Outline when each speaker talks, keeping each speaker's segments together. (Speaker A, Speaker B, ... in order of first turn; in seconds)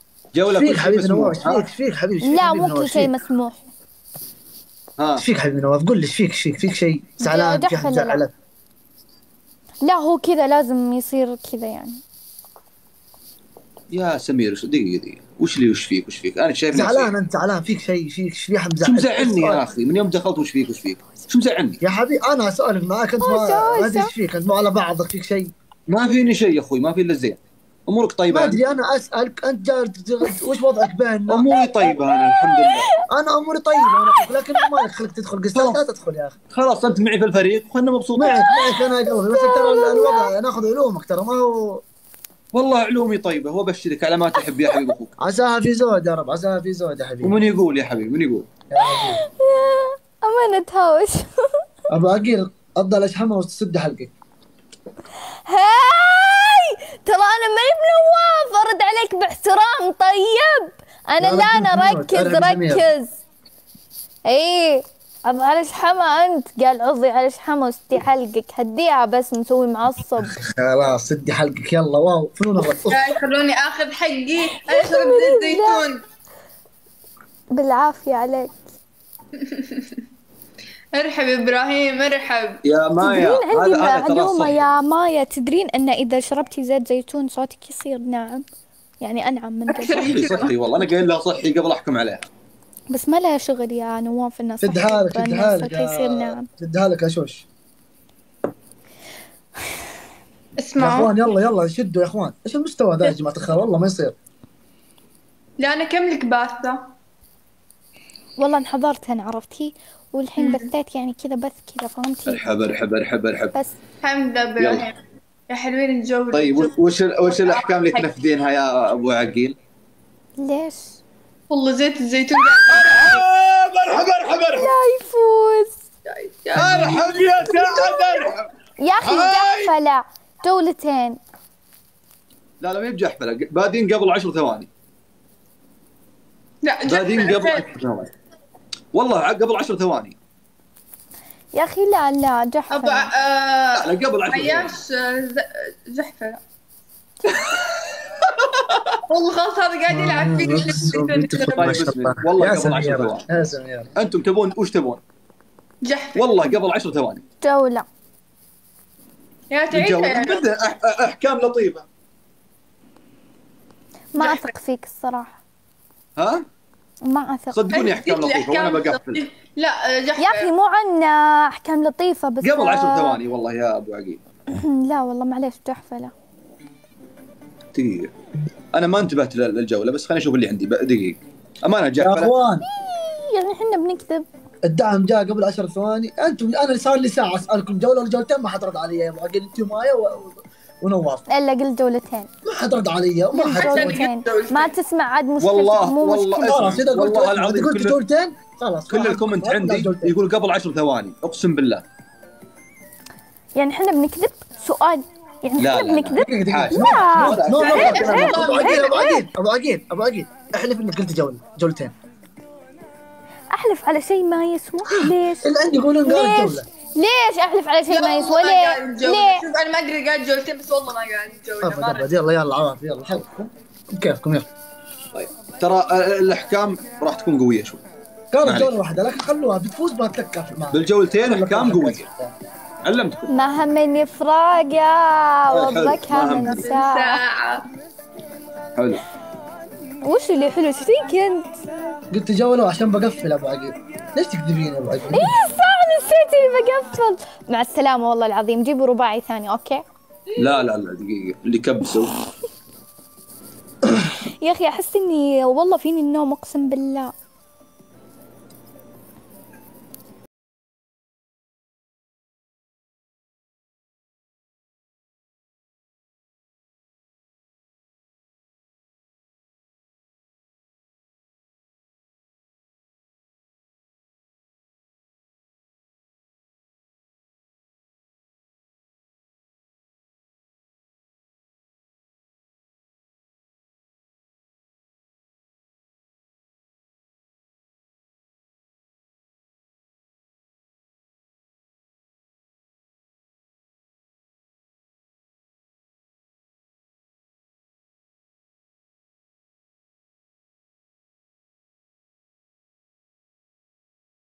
Speaker A: 0.3-1.6, 5.0-5.2, 13.9-17.1, 18.8-21.8, 25.9-28.6, 31.3-32.9, 36.5-38.4, 42.5-45.1, 47.2-48.5, 82.6-84.6, 90.0-92.3, 112.3-113.5, 114.6-114.9, 116.3-119.5, 122.7-124.7, 126.5-128.5, 129.0-129.7, 132.6-134.7, 136.9-138.1, 138.9-140.2, 143.8-144.8, 151.6-153.2, 153.9-155.0, 156.1-157.2, 159.7-161.8, 166.2-166.4, 167.5-169.2, 172.4-174.2, 177.7-178.1, 178.7-182.3, 195.4-198.0, 198.9-201.8, 205.6-208.5, 225.1-227.8, 228.4-228.8, 230.7-232.1, 232.8-233.3, 235.5-236.6, 238.8-239.0, 250.4-252.1
Speaker B: 0.5-3.1, 5.2-8.3, 16.7-19.6, 21.8-25.5, 28.3-31.5, 33.1-36.4, 38.2-41.8, 45.2-47.4, 48.7-49.2, 51.9-54.1, 61.2-62.9, 70.2-73.1, 94.6-97.5, 100.8-104.1, 149.9-153.9, 182.0-182.6, 184.6-191.2, 192.4-194.0, 196.3-200.1, 206.1-211.9, 215.4-216.7, 221.6-224.5, 228.3-232.3, 242.1-245.4
Speaker C: 2.2-3.6, 7.2-8.2, 9.8-12.0, 23.2-24.1, 31.6-32.9, 33.8-34.7, 38.2-40.3, 48.8-51.6, 55.5-63.2, 64.3-70.3, 74.6-75.8, 77.5-78.6, 83.0-88.4, 89.0-90.3, 92.9-96.5, 108.4-112.7, 120.4-121.0, 124.5-125.8, 128.8-131.2, 141.5-143.1, 157.4-157.8, 164.1-165.4, 167.0-167.6, 170.2-173.2, 174.5-176.1, 182.6-184.3, 191.3-192.3, 193.3-196.5, 203.6-209.2, 213.5-215.5, 216.0-219.4, 233.3-237.2, 240.0-241.6, 245.1-249.8, 254.4-257.1
Speaker D: 72.8-76.0, 79.5-79.8, 80.9-82.6, 89.7-90.6, 100.6-101.2, 105.6-106.8, 110.4-110.7, 114.0-115.0, 115.5-118.1, 121.5-123.2, 126.1-128.3, 136.6-137.7, 142.7-146.4, 147.3-147.6, 149.1-151.9, 155.8-156.6, 159.5-160.4, 164.2-164.5, 167.7-170.5, 193.4-194.7, 207.4-209.1, 217.9-222.1, 236.3-237.6